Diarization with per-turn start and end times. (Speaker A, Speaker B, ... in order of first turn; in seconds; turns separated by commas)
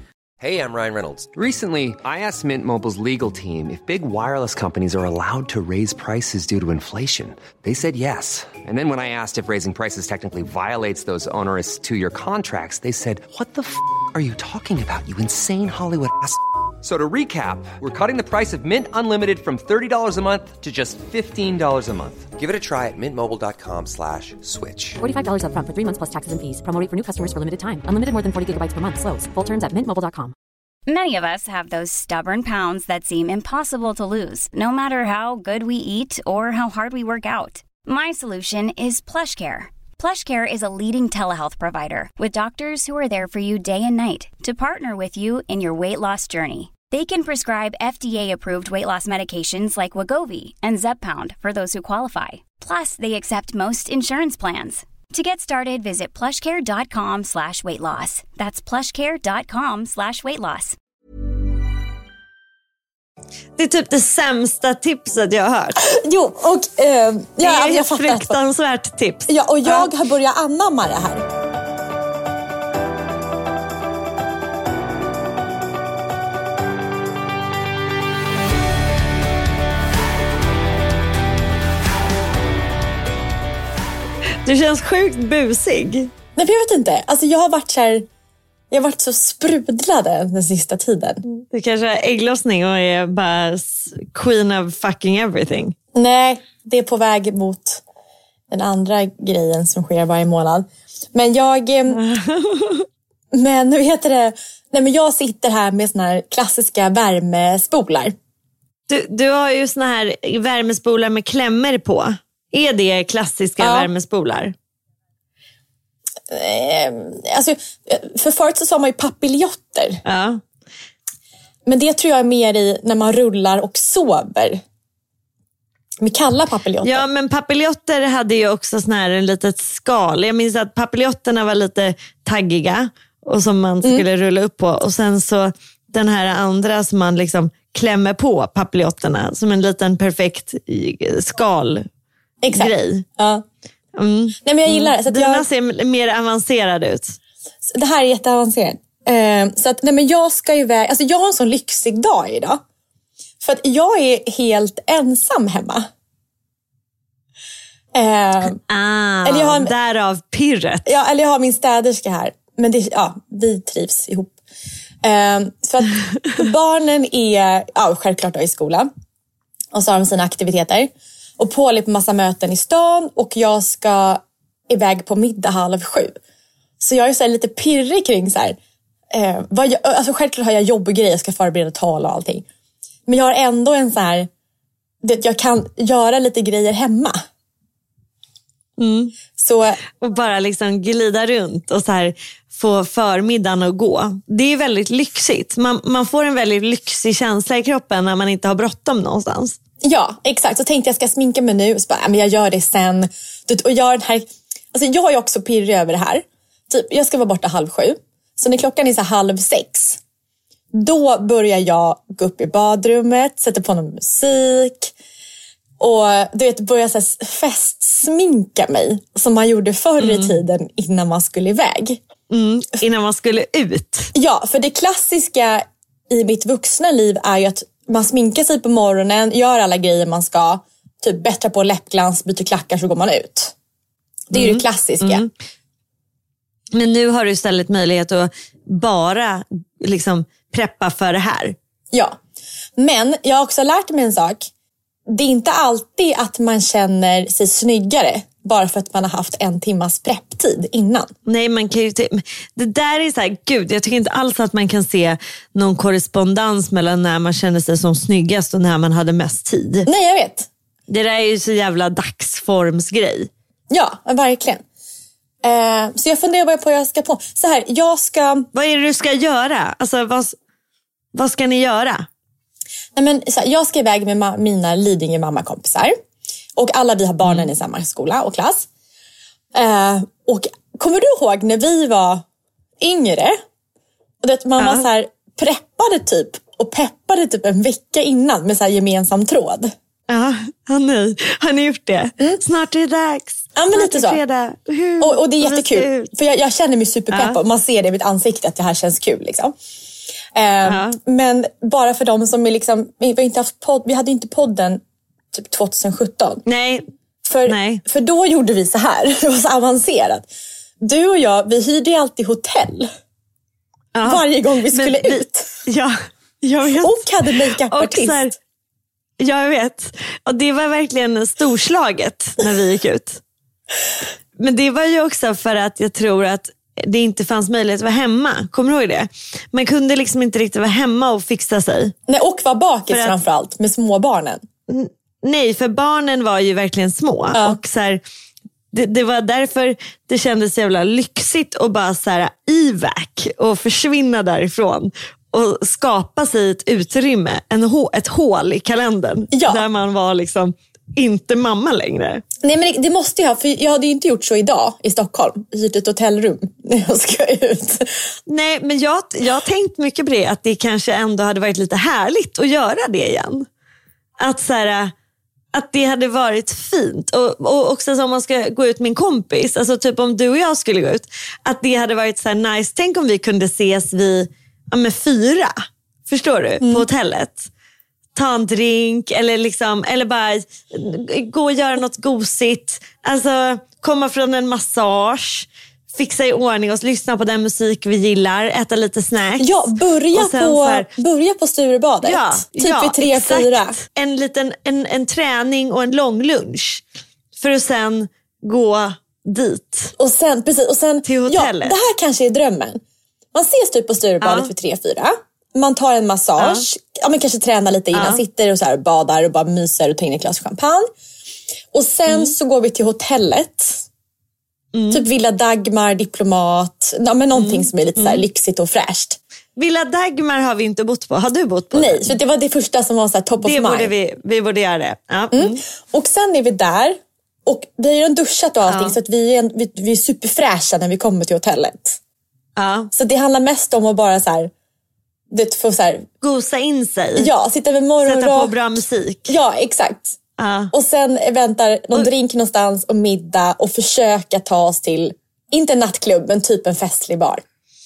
Speaker A: 0.4-25.0, Speaker B: 25.0-30.3, Speaker C: 30.9-60.8, Speaker D: 63.6-65.8, Speaker E: 65.8-68.4, Speaker D: 67.4-69.9, Speaker E: 69.3-71.3, Speaker D: 84.4-86.1, Speaker E: 86.3-88.1, Speaker E: 88.7-91.2, Speaker D: 91.5-95.7, Speaker E: 95.9-97.8, Speaker E: 98.5-102.0, Speaker D: 101.9-102.8, Speaker E: 103.3-108.1, Speaker D: 108.9-114.5, Speaker E: 113.6-113.9, Speaker E: 116.3-120.0, Speaker D: 120.0-120.4, Speaker E: 121.7-124.6, Speaker E: 126.0-127.0, Speaker D: 126.8-141.8, Speaker E: 142.4-143.4, Speaker D: 142.5-143.0, Speaker D: 143.9-147.2, Speaker E: 144.4-145.4, Speaker E: 147.6-152.6, Speaker E: 153.4-155.9, Speaker E: 157.9-158.6, Speaker D: 158.7-160.9, Speaker E: 159.2-159.7, Speaker E: 160.8-164.3, Speaker E: 165.0-168.9, Speaker E: 169.7-176.2, Speaker E: 176.8-178.6, Speaker E: 179.1-182.4, Speaker E: 183.1-184.3, Speaker E: 185.0-187.2, Speaker D: 188.8-189.1, Speaker E: 189.4-189.8, Speaker D: 190.0-199.6, Speaker E: 199.8-210.0, Speaker E: 210.7-214.9, Speaker E: 215.8-222.0, Speaker D: 220.0-220.3, Speaker D: 222.3-224.1, Speaker E: 224.1-233.5, Speaker E: 234.3-235.2, Speaker D: 234.3-235.3, Speaker D: 236.7-241.6, Speaker E: 241.9-242.2, Speaker E: 242.8-244.5, Speaker E: 245.1-251.1, Speaker D: 251.2-259.9, Speaker E: 259.9-260.5, Speaker D: 260.9-263.3, Speaker E: 263.7-264.6, Speaker E: 265.4-268.5, Speaker D: 268.5-270.4, Speaker D: 271.1-272.1, Speaker E: 272.9-275.9, Speaker E: 276.6-278.7, Speaker E: 279.5-282.2, Speaker E: 282.8-283.4, Speaker E: 284.2-289.7, Speaker D: 284.6-284.9, Speaker D: 290.1-296.1, Speaker E: 293.6-294.2, Speaker E: 295.0-299.6, Speaker D: 297.1-297.4, Speaker E: 300.3-304.8, Speaker D: 300.6-301.0, Speaker E: 305.3-306.4, Speaker D: 306.4-306.8, Speaker E: 307.2-310.3, Speaker D: 307.4-307.8, Speaker E: 310.8-312.9, Speaker D: 313.9-317.0, Speaker E: 314.0-315.5, Speaker E: 316.8-318.4, Speaker D: 317.7-318.3, Speaker D: 319.2-323.2, Speaker D: 324.4-331.9, Speaker E: 332.1-334.4, Speaker D: 334.7-338.0, Speaker D: 338.7-352.2, Speaker E: 349.3-349.6, Speaker E: 352.4-357.9, Speaker D: 358.3-363.4, Speaker D: 364.2-364.9, Speaker D: 365.5-375.6, Speaker D: 376.1-377.5, Speaker E: 376.6-376.9, Speaker D: 378.1-390.9, Speaker E: 389.4-393.8, Speaker D: 392.0-396.8, Speaker D: 397.4-399.9, Speaker E: 400.0-402.8, Speaker D: 401.1-401.8, Speaker E: 403.3-410.9, Speaker D: 404.2-404.5, Speaker D: 406.4-406.6, Speaker D: 407.9-408.2, Speaker E: 411.7-413.8, Speaker D: 412.1-412.3, Speaker D: 414.7-415.0, Speaker E: 414.9-419.2, Speaker D: 417.3-418.2, Speaker D: 419.6-422.1, Speaker E: 421.7-423.9, Speaker D: 423.4-425.6, Speaker E: 425.3-432.0, Speaker D: 428.7-429.0, Speaker D: 432.6-432.9, Speaker E: 432.9-434.5, Speaker E: 435.3-436.1, Speaker D: 436.2-437.3, Speaker E: 437.2-440.2, Speaker D: 438.0-439.3, Speaker D: 440.4-440.7, Speaker E: 440.7-447.4